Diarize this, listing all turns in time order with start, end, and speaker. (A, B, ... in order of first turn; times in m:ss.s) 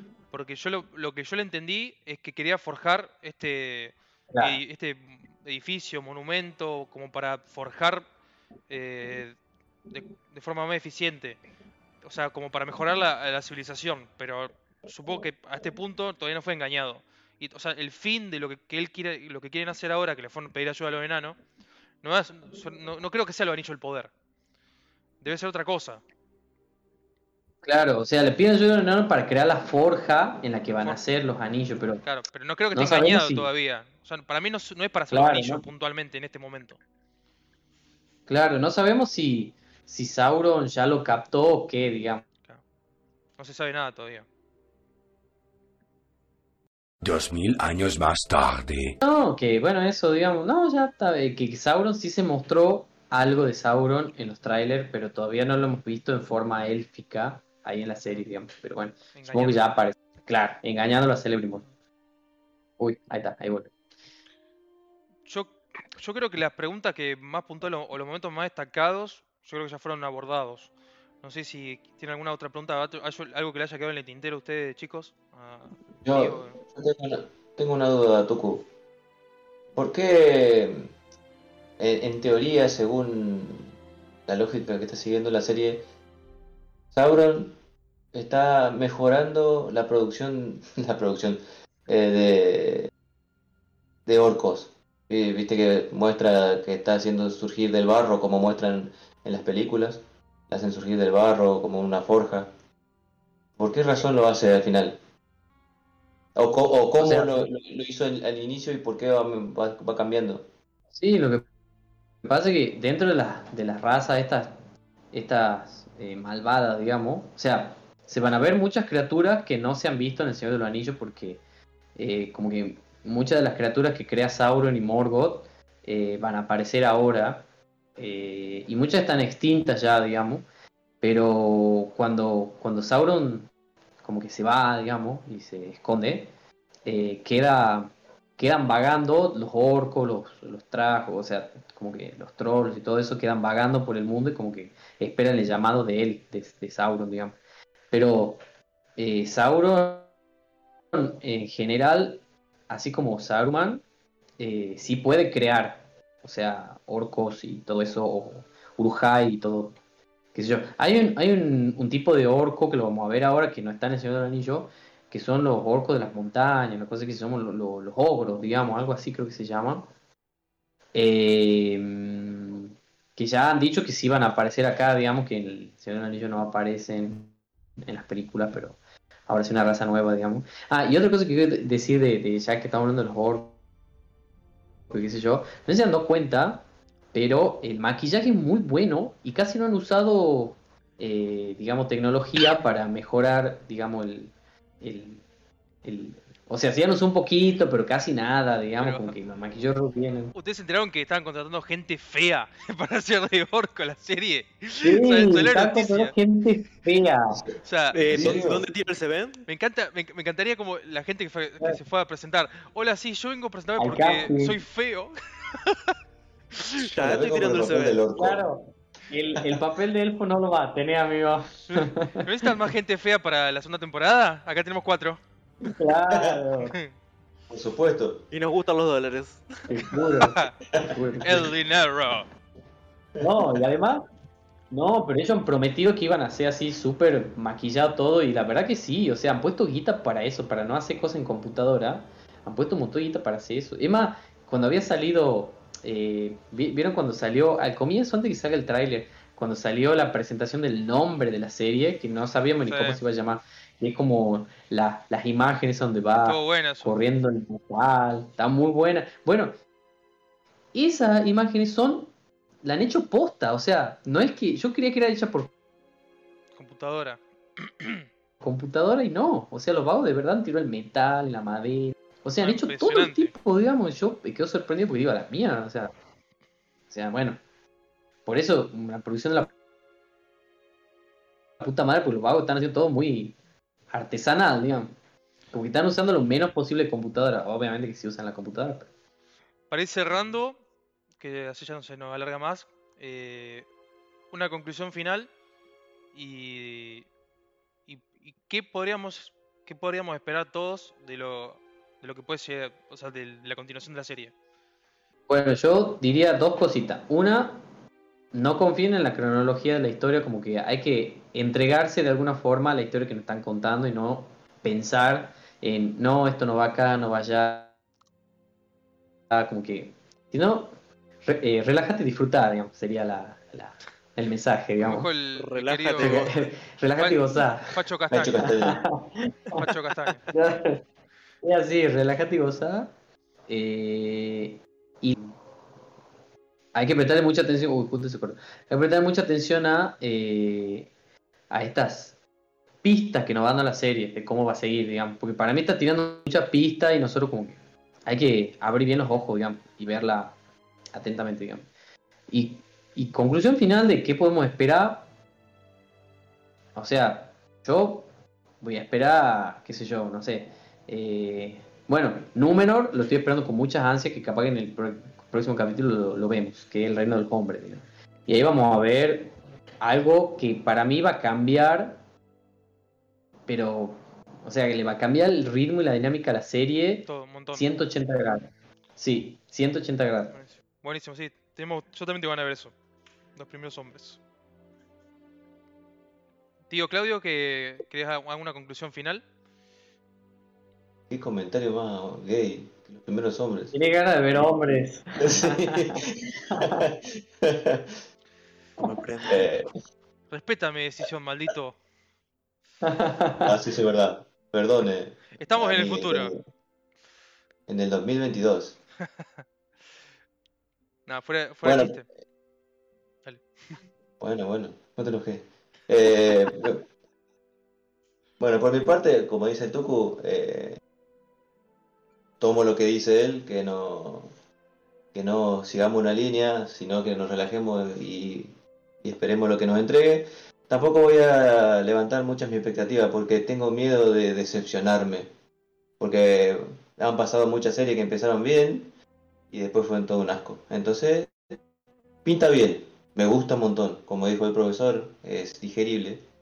0:00.3-0:08.1 A
0:04.3-0:04.6 B
0:08.7-0:09.4 A
0:09.9-0:11.4 A
0:12.0-0:21.4 A
0:22.0-0:24.1 A
0:25.2-0:26.0 A
0:27.6-0:32.0 B
0:32.0-0:36.8 A
0:32.7-0:33.5 B
0:35.1-0:35.6 B
0:38.3-0:42.2 B
0:43.4-0:44.3 A
0:47.0-0:49.0 C
0:49.0-1:01.6 B
0:59.1-0:59.6 A
1:02.8-1:03.7 B
1:05.3-1:10.7 A
1:11.2-1:16.6 A
1:16.0-1:18.7 D
1:19.8-1:20.9 D
1:21.8-1:23.7 D
1:24.3-1:25.9 D
1:26.9-1:27.6 D
1:28.1-1:32.9 D
1:34.1-1:42.5 D
1:43.6-1:45.0 D
1:46.4-1:50.5 D
1:47.0-1:47.5 B
1:50.9-1:51.4 B
1:52.2-1:54.6 B
1:55.1-2:01.4 B
2:02.0-2:07.4 B
2:08.0-2:10.5 B
2:11.0-2:13.5 B
2:14.0-2:16.3 B
2:16.9-2:27.4 B
2:27.9-2:28.4 B
2:29.0-2:30.1 B
2:30.9-2:33.8 B
2:34.4-2:39.8 B
2:40.4-2:49.9 B
2:50.9-2:57.3 B
2:57.8-3:03.6 B
3:04.9-3:15.2 B
3:15.8-3:20.3 B
3:18.8-3:19.2 A
3:20.4-3:26.1 A
3:24.8-3:27.4 B
3:27.6-3:28.3 A
3:27.9-3:29.4 E
3:28.1-3:28.7 D
3:29.5-3:35.9 A
3:33.8-3:34.6 B
3:36.8-3:38.0 E
3:37.0-3:38.5 D
3:38.2-3:42.3 B
3:41.7-3:45.2 A
3:45.7-3:46.8 B
3:46.1-3:46.4 D
3:47.5-3:48.3 D
3:48.3-3:49.4 E
3:49.7-3:51.4 B
3:50.1-3:50.6 A
3:50.8-3:51.5 D
3:51.2-3:52.3 A
3:53.2-3:53.6 D
3:53.2-3:54.1 B
3:54.7-4:19.5 B
4:12.6-4:13.0 A
4:16.2-4:17.0 A
4:20.7-4:22.1 B
4:22.6-4:25.5 B
4:26.6-4:28.1 A
4:28.4-4:35.9 B
4:32.4-4:33.3 A
4:36.9-4:37.4 B
4:38.3-4:39.5 B
4:41.6-4:43.4 B
4:43.9-4:44.9 B
4:45.5-4:48.9 B
4:49.7-4:50.6 A
4:51.2-4:53.7 A
4:54.3-4:55.3 A
4:56.1-4:57.1 A
4:57.9-5:04.3 A
5:05.3-5:07.6 B
5:08.3-5:17.8 B
5:19.3-5:20.7 B
5:21.2-5:25.1 B
5:24.8-5:26.3 A
5:25.4-5:26.5 E
5:26.0-5:27.7 B
5:27.0-5:28.5 A
5:28.1-5:28.8 D
5:28.4-5:29.6 B
5:29.6-5:30.2 A
5:30.3-5:30.8 B
5:31.4-5:32.9 B
5:33.5-5:35.4 B
5:36.8-5:40.9 B
5:41.5-5:42.2 B
5:42.8-5:50.4 B
5:50.9-5:51.7 B
5:52.3-5:55.0 B
5:56.8-5:58.1 B
5:58.6-6:12.0 B
6:13.5-6:20.3 B
6:17.1-6:17.7 A
6:20.3-6:22.7 A
6:23.4-6:24.2 A
6:26.7-6:29.2 A
6:31.1-6:33.7 D
6:33.7-6:36.8 B
6:35.2-6:38.0 D
6:38.8-6:39.5 E
6:39.3-6:39.7 D
6:40.3-6:41.8 A
6:42.8-6:43.5 B
6:43.4-6:46.4 D
6:45.4-6:46.3 A
6:47.7-6:48.8 D
6:51.1-6:52.1 A
6:51.6-6:52.0 D
6:53.2-6:53.8 A
6:54.2-6:56.8 D
6:58.4-7:00.8 D
7:02.4-7:04.3 D
7:05.1-7:15.3 D
7:16.0-7:18.9 D
7:19.5-7:21.6 D
7:22.2-7:26.2 D